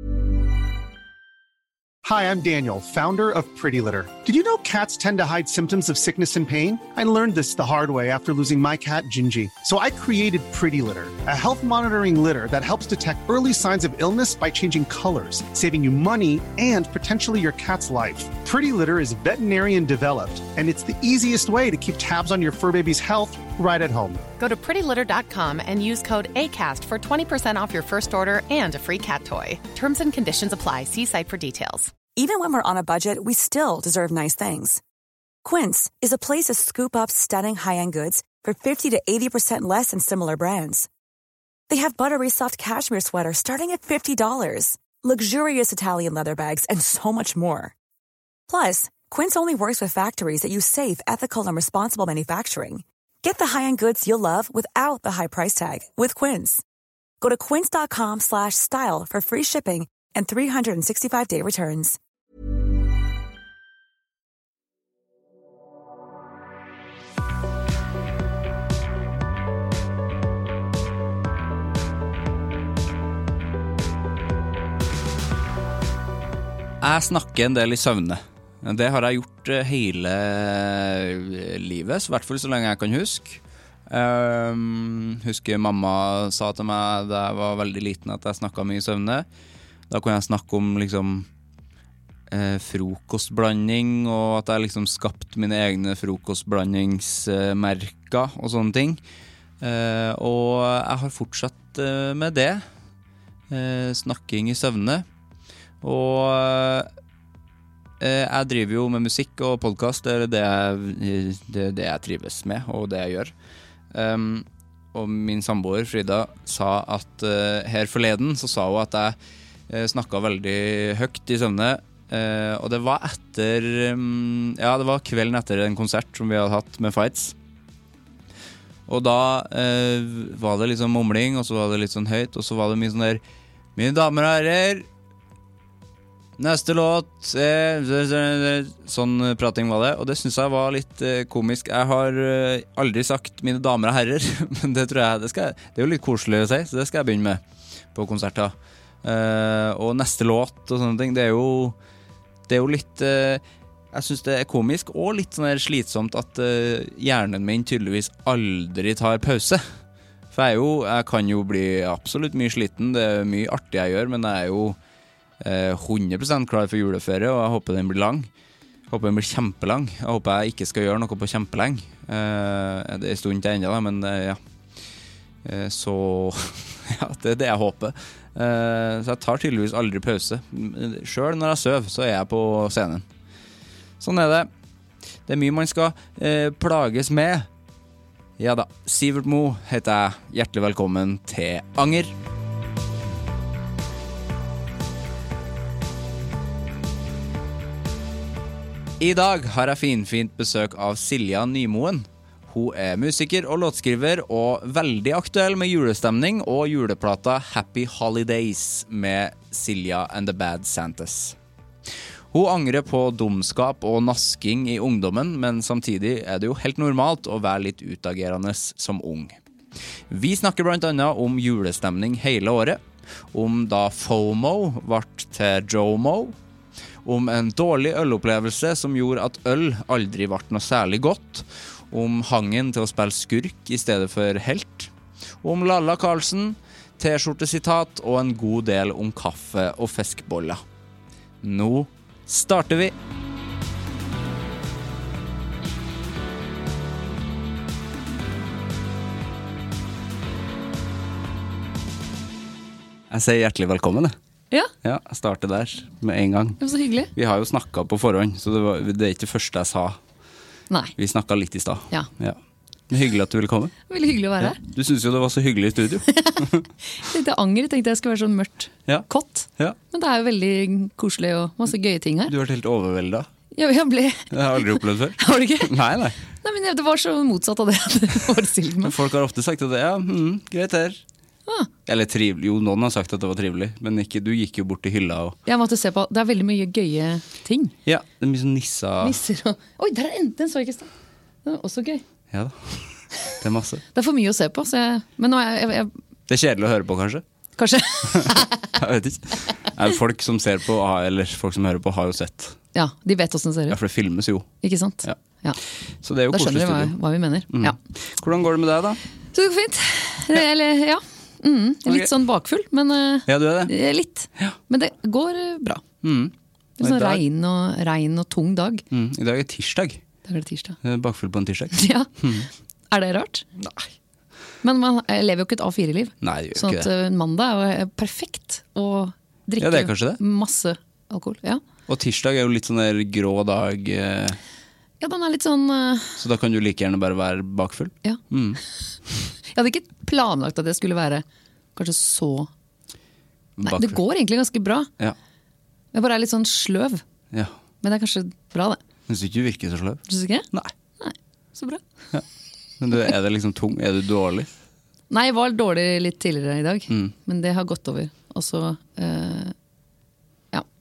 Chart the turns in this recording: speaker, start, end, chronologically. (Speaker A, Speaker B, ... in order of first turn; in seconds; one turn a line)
Speaker A: 2.0-24.2
Speaker B: 24.4-32.0
Speaker C: 32.1-34.8
Speaker C: 35.4-40.9
Speaker C: 41.7-47.7
Speaker C: 48.5-56.6
Speaker C: 57.2-62.0
Speaker D: 76.8-89.2
Speaker D: 89.9-91.3
Speaker D: 92.3-99.0
Speaker D: 99.6-102.6
Speaker D: 103.5-105.0
Speaker D: 105.8-106.9
Speaker D: 108.0-113.3
Speaker D: 113.9-119.2
Speaker D: 119.7-127.3
Speaker D: 128.9-133.2
Speaker D: 133.8-134.9
Speaker D: 136.4-147.4
Speaker D: 147.9-151.8
Speaker D: 152.5-159.6
Speaker D: 160.3-164.8
Speaker D: 165.4-168.3
Speaker D: 168.9-174.4
Speaker D: 175.4-183.1
Speaker D: 184.0-184.5
Speaker D: 185.3-187.5
Speaker D: 188.4-192.1
Speaker D: 199.0-211.3
Speaker D: 212.3-219.4
Speaker D: 220.1-222.8
Speaker D: 223.3-226.3
Speaker D: 227.0-234.9
Speaker D: 235.4-240.6
Speaker D: 241.4-242.9
Speaker D: 253.1-254.1
Speaker D: 254.8-256.6
Speaker E: 256.6-257.1
Speaker D: 257.1-260.0
Speaker E: 260.7-260.9
Speaker D: 261.0-262.4
Speaker D: 262.9-263.7
Speaker E: 263.9-264.6
Speaker D: 264.4-266.6
Speaker E: 266.1-272.3
Speaker D: 272.3-273.3
Speaker E: 273.5-275.7
Speaker D: 274.3-276.2
Speaker E: 276.4-278.9
Speaker D: 278.8-281.0
Speaker D: 281.9-285.4
Speaker E: 285.4-287.7
Speaker D: 287.9-289.2
Speaker E: 289.0-290.9
Speaker E: 291.4-292.0
Speaker D: 292.3-293.8
Speaker E: 293.9-295.9
Speaker D: 296.3-297.2
Speaker E: 297.6-298.6
Speaker D: 298.1-302.6
Speaker E: 302.7-303.8
Speaker D: 303.7-304.5
Speaker E: 304.6-305.6
Speaker D: 306.0-306.9
Speaker E: 306.3-307.8
Speaker D: 307.5-309.0
Speaker E: 309.3-315.8
Speaker D: 313.3-313.7
Speaker D: 316.0-317.2
Speaker E: 316.8-318.8
Speaker D: 318.9-320.0
Speaker E: 320.2-320.8
Speaker D: 320.8-322.5
Speaker E: 321.7-322.1
Speaker E: 322.9-323.5
Speaker D: 323.6-323.8
Speaker E: 324.6-331.6
Speaker D: 326.2-326.9
Speaker D: 329.6-330.2
Speaker D: 331.9-334.4
Speaker E: 335.0-336.2
Speaker D: 336.2-338.6
Speaker E: 339.5-341.2
Speaker E: 341.8-342.5
Speaker D: 343.6-344.0
Speaker E: 343.6-344.9
Speaker E: 345.9-347.0
Speaker E: 347.8-348.8
Speaker D: 349.1-350.0
Speaker E: 350.1-350.5
Speaker E: 351.0-351.8
Speaker D: 352.8-354.5
Speaker E: 355.1-359.5